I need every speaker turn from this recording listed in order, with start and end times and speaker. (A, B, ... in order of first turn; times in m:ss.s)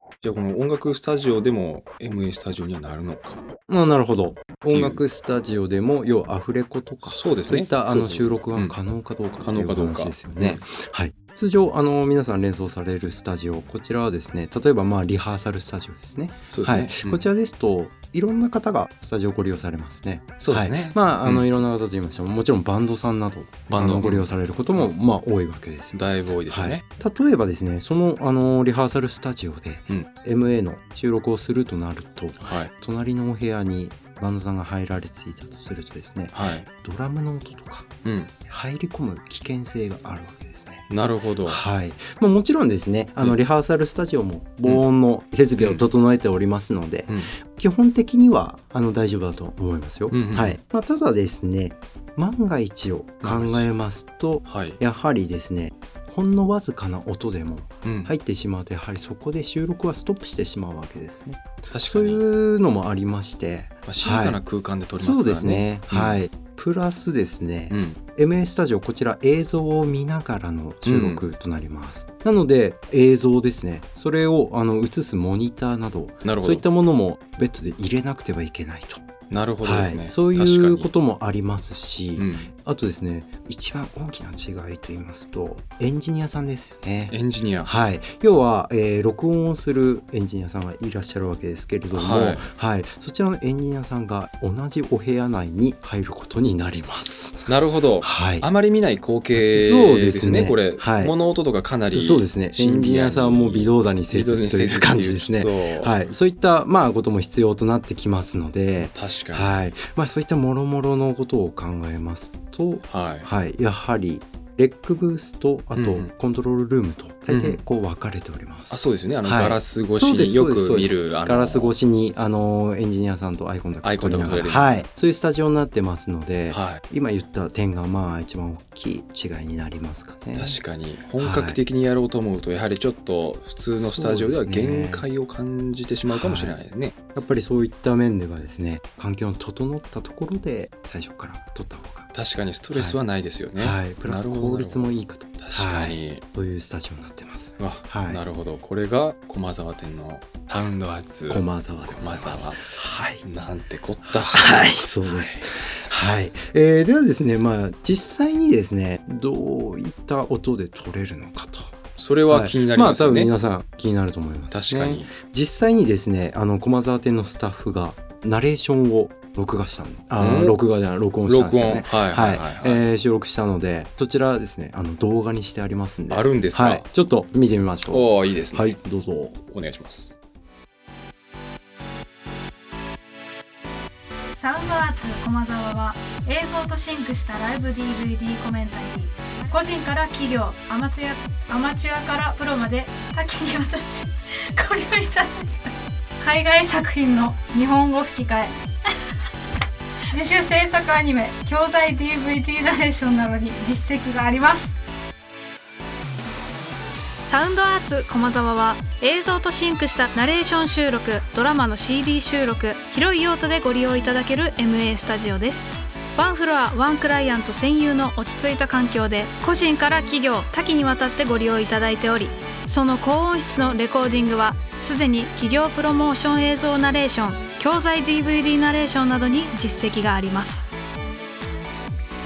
0:00.2-0:03.4 A
0:03.7-0:37.9 B
0:04.7-0:05.0 A
0:07.1-0:08.7 A
0:09.4-0:10.6 A
0:16.5-0:17.3 A
0:20.4-0:21.4 A
0:23.7-0:24.9 A
0:25.9-0:26.8 A
0:32.4-0:32.7 A
0:36.3-0:36.7 A
0:38.0-0:38.3 A
0:38.5-0:40.9 B
0:40.9-0:41.6 A
0:41.4-1:04.4 B
0:45.6-0:45.8 A
0:50.1-0:50.6 A
0:53.2-0:53.7 A
0:54.4-0:54.8 A
0:57.8-0:58.1 A
1:01.7-1:02.2 A
1:03.8-1:06.2 A
1:05.0-1:19.0 B
1:07.7-1:08.0 A
1:10.8-1:11.2 A
1:16.2-1:16.6 A
1:19.3-1:20.9 A
1:19.6-1:38.5 B
1:22.2-1:22.5 A
1:27.1-1:27.7 A
1:31.9-1:32.5 A
1:37.5-1:45.9 A
1:39.3-1:41.1 B
1:41.9-2:10.6 B
1:48.8-1:49.6 A
1:52.9-1:53.3 A
1:55.7-1:56.1 A
1:57.3-1:57.6 A
1:58.7-2:01.7 A
2:03.8-2:04.8 A
2:06.5-2:06.8 A
2:10.3-2:16.9 A
2:11.2-2:11.6 B
2:13.8-2:15.0 B
2:16.1-2:16.6 B
2:17.1-2:22.1 B
2:22.1-2:24.8 A
2:23.6-2:28.2 B
2:25.4-2:26.2 A
2:27.6-2:32.7 A
2:31.3-2:33.2 B
2:33.2-2:35.4 A
2:34.1-2:41.8 B
2:42.0-2:43.3 A
2:42.3-2:59.4 B
2:44.5-2:45.1 A
2:50.2-2:50.6 A
2:51.2-2:52.8 A
2:56.1-2:56.9 A
2:57.9-2:58.8 A
2:59.4-3:00.1 A
3:04.4-3:18.5 C
3:20.1-3:24.7 C
3:27.2-3:50.6 C